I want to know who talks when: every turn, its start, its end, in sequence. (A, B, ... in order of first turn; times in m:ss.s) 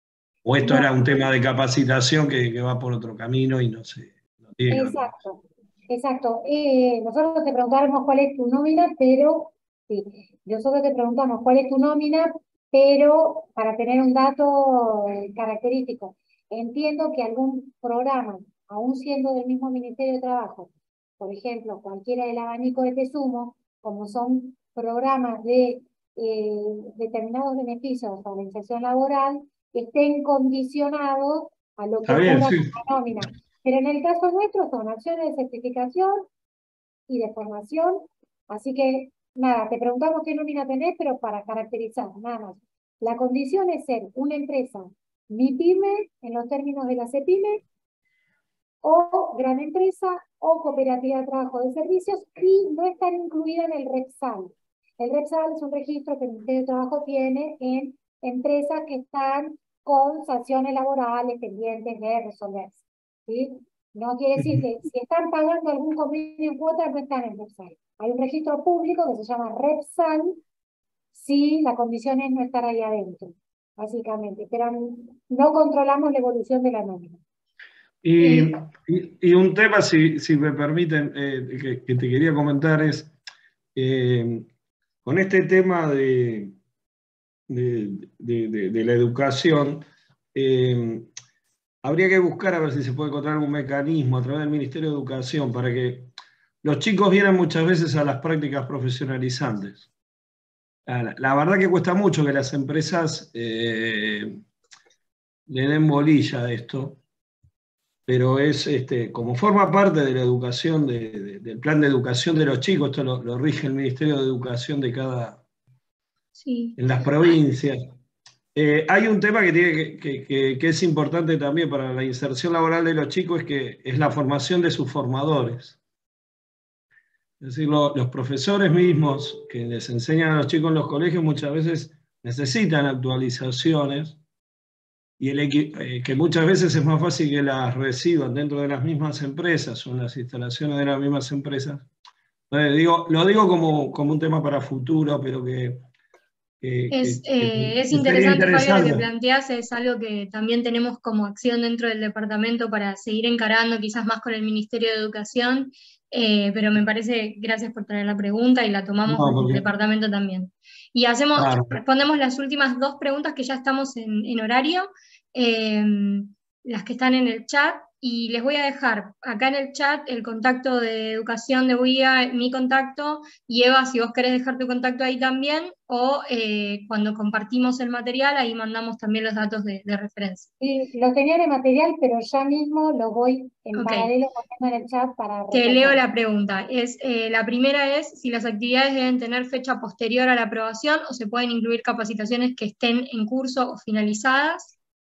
0:00.4-0:05.1 A
0:00.6-0:00.9 B
0:04.7-0:36.3 B
0:32.0-0:32.8 A
0:37.1-0:47.6 B
0:48.8-1:10.4 B
1:11.1-1:17.2 B
1:18.0-1:23.1 A
1:18.2-1:18.5 C
1:23.8-1:24.5 A
1:25.0-1:26.5 A
1:27.5-1:31.1 A
1:31.8-1:36.1 A
1:36.6-1:39.8 A
1:40.9-1:44.4 A
1:45.5-1:47.0 A
1:48.1-1:55.4 A
1:56.4-1:57.3 C
1:56.8-1:57.8 A
1:58.6-2:05.8 A
2:07.4-2:14.2 A
2:15.2-2:21.9 A
2:22.5-2:25.8 A
2:26.6-2:29.1 A
2:26.9-3:00.5 C
2:39.0-2:39.6 A
2:41.4-2:41.8 A
3:00.6-3:06.0 B
3:03.8-3:04.1 C
3:05.5-3:14.8 C